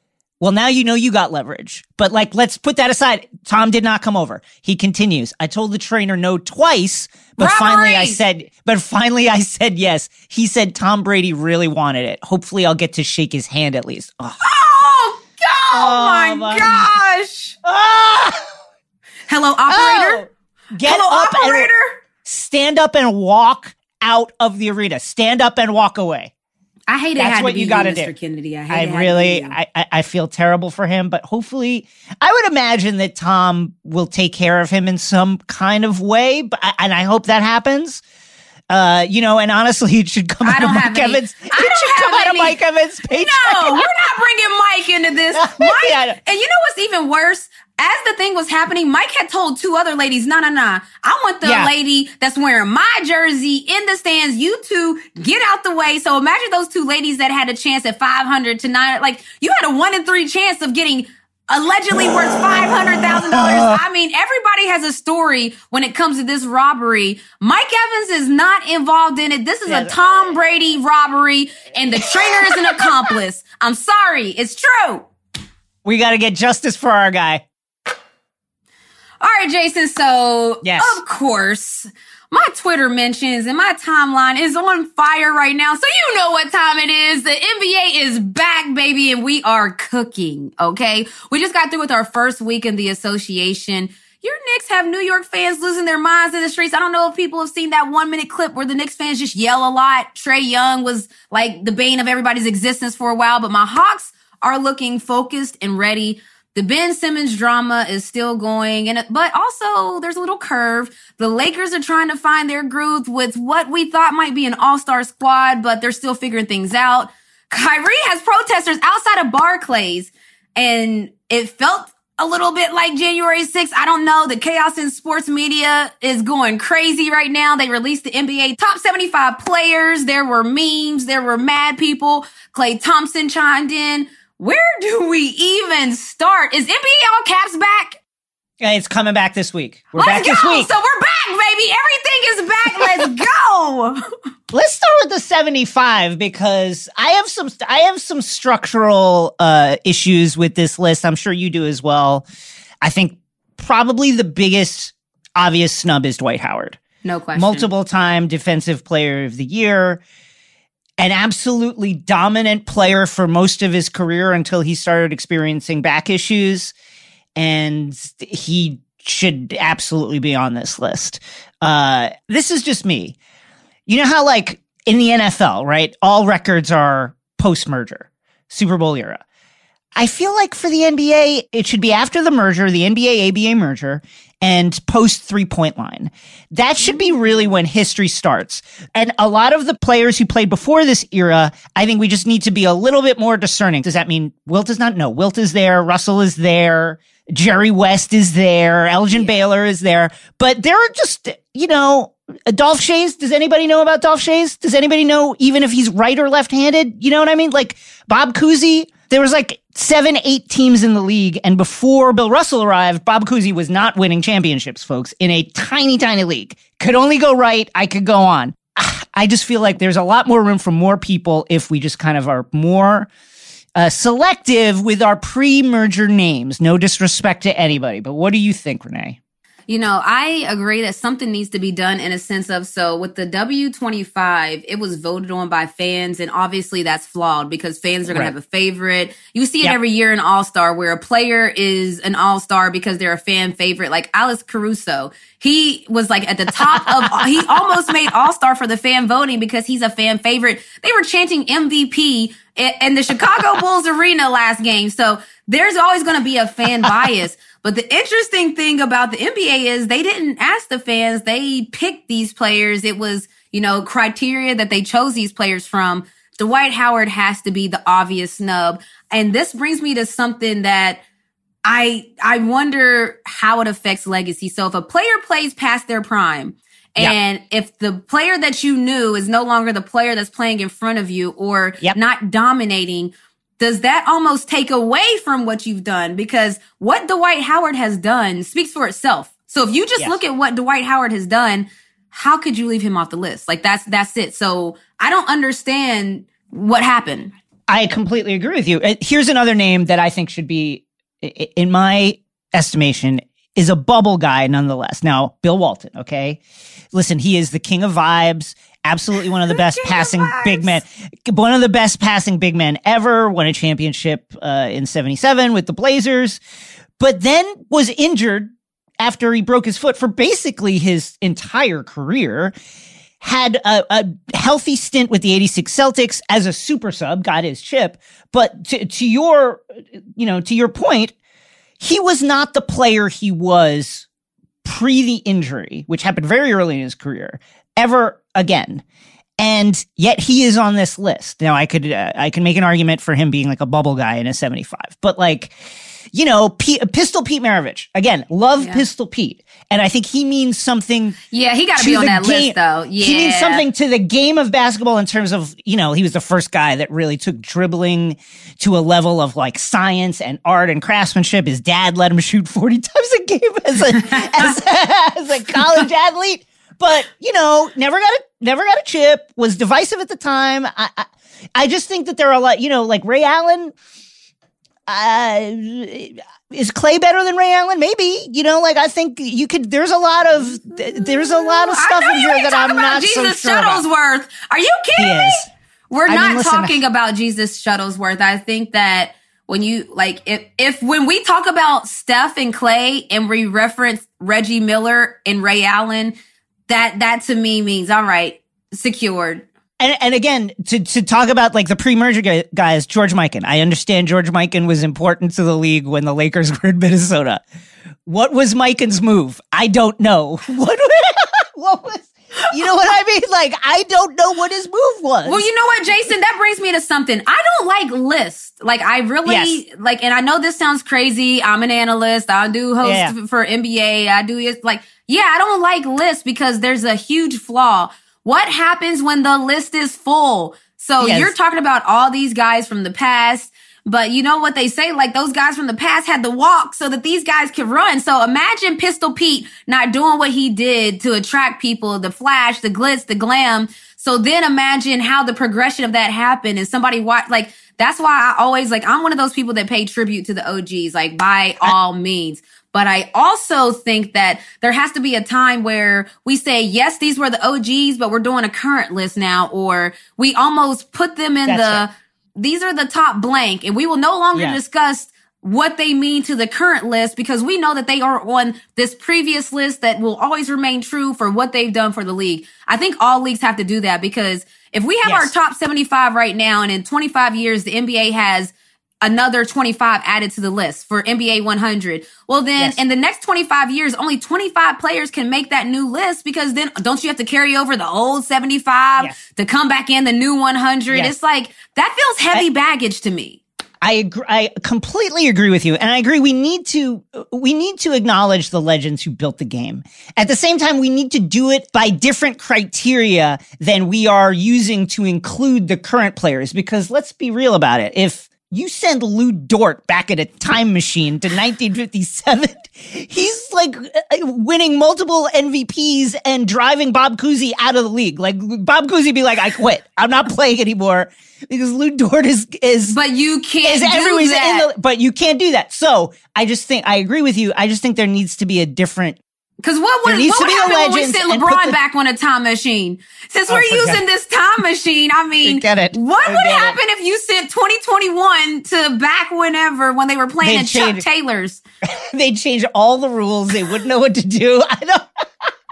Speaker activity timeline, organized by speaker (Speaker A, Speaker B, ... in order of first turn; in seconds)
Speaker A: 0.4-14.4, 15.7-16.9, 17.6-18.4, 19.7-21.7, 22.2-26.3, 27.2-28.1, 28.7-38.0, 38.7-43.9, 45.3-46.2, 51.4-51.7, 63.3-63.8, 69.7-70.0, 72.1-72.8, 75.8-77.4, 80.6-81.0, 138.6-140.7, 144.5-152.2, 152.8-156.8, 157.3-160.0, 161.0-166.7, 167.3-173.2, 173.9-179.2, 179.9-223.1, 223.8-229.2, 238.1-238.3, 246.7-247.3, 297.7-306.4, 306.9-316.4, 317.0-322.6, 323.2-329.6, 330.2-331.1, 331.8-334.1, 334.6-338.8, 339.4-345.6, 346.1-351.2, 351.8-373.7, 374.9-383.8, 384.9-385.5, 386.1-386.8, 399.8-407.4, 408.1-415.5, 419.2-419.6, 422.8-423.1, 431.0-431.3, 461.4-461.9, 464.3-464.6, 475.0-475.3, 493.8-523.0, 523.6-529.2, 530.0-531.8, 533.5-534.0, 535.4-536.8, 540.4-541.0, 541.9-545.1
Speaker B: 7.4-8.2, 14.4-17.6, 19.3-20.2, 20.8-21.9, 26.9-29.6, 40.4-42.6, 43.1-75.1, 79.2-138.0, 139.9-144.0, 157.0-157.7, 229.7-271.0, 271.6-297.3, 309.5-310.8, 348.6-348.8, 351.3-353.6, 381.2-396.1, 396.7-399.4, 415.2-493.4, 522.9-524.7, 529.6-541.6